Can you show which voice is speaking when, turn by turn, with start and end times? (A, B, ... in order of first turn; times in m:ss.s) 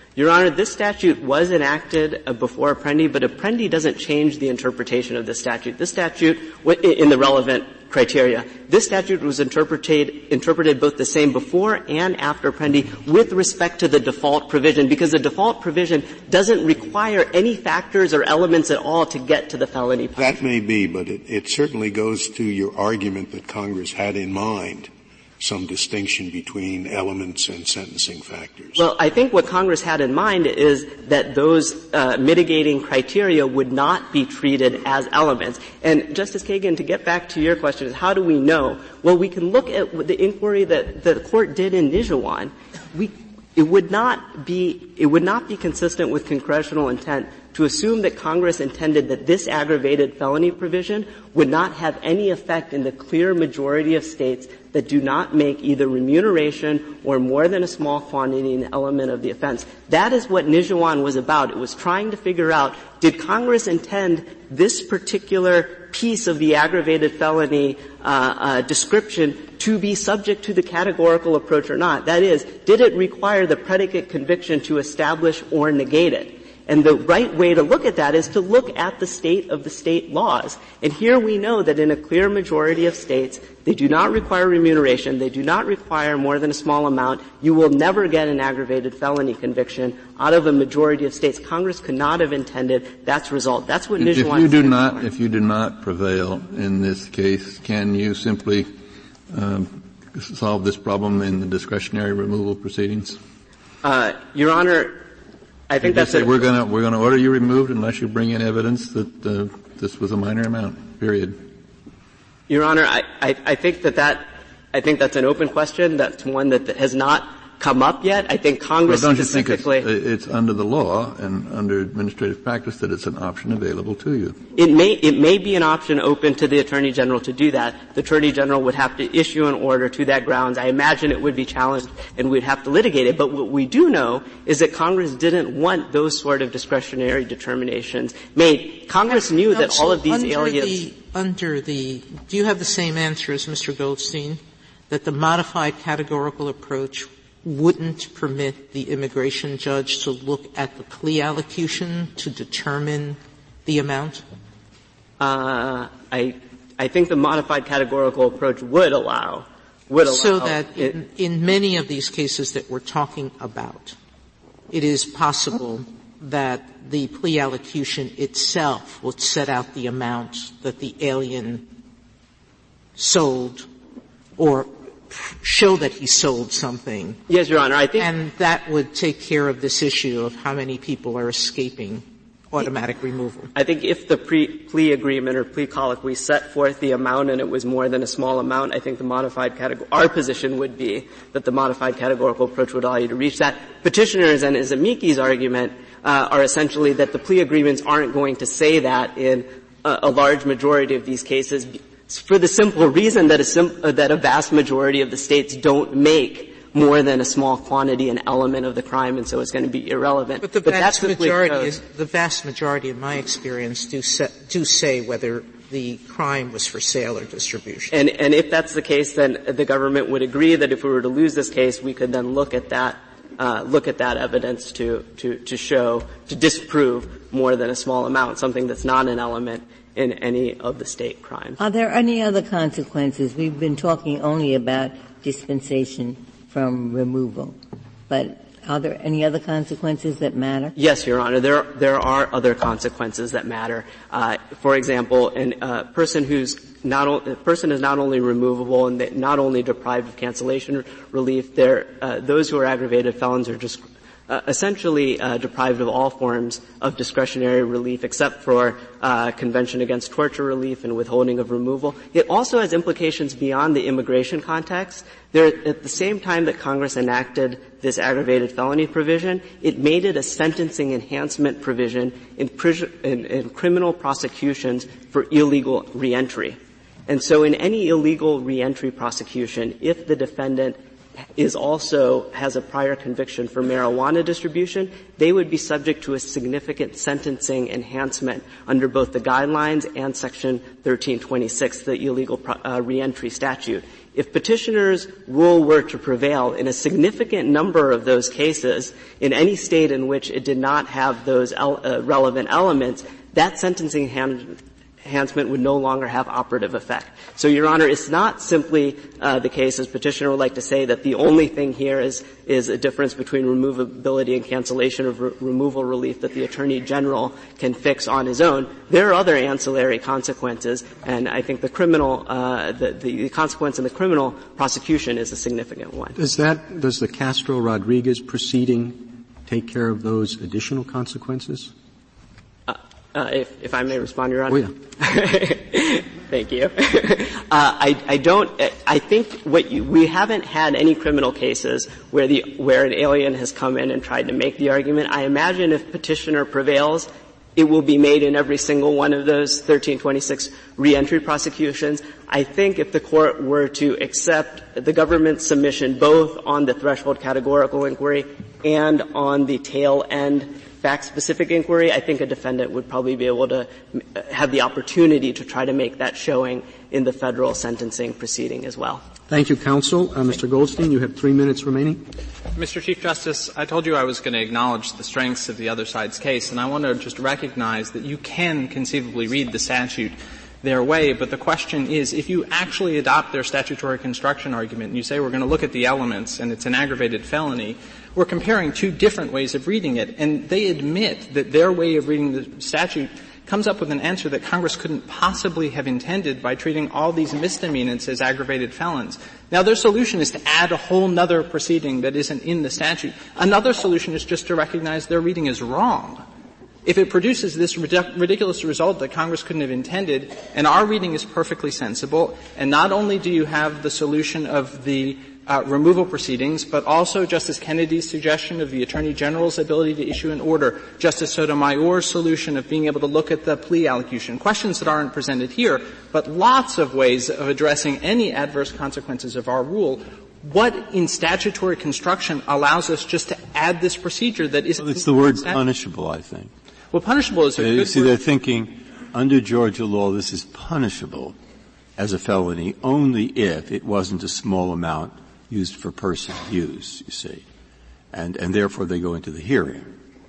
0:00.2-0:20.3 A
0:20.2-0:28.8 B
0:28.8-1:35.1 A
1:34.0-1:38.7 C
1:39.3-1:43.2 C
1:43.8-1:45.0 A
1:45.7-1:46.4 A
1:45.8-1:51.4 C
1:52.5-1:59.9 A
1:58.8-2:04.4 C
2:04.6-2:20.9 A
2:19.3-2:34.2 D
2:35.2-2:41.0 A
2:40.0-2:44.0 D
2:44.7-2:51.7 D
2:53.0-2:53.7 D
2:54.4-2:57.2 D
2:57.3-2:58.1 A
2:58.0-3:03.5 D
3:03.5-3:31.8 A
3:30.4-3:38.0 D
3:37.9-3:51.6 A
3:51.6-3:57.6 E
3:58.1-4:00.7 E
4:00.8-4:40.8 A
4:41.4-5:26.2 A
5:26.2-5:31.7 F
5:32.7-6:09.0 A
5:34.5-5:34.7 F
6:09.3-6:12.0 F
6:12.6-6:46.2 G
6:46.8-7:15.6 G
7:14.8-7:16.5 H
7:16.9-7:18.1 G
7:17.6-7:21.4 H
7:22.0-7:27.4 H
7:28.1-7:29.9 H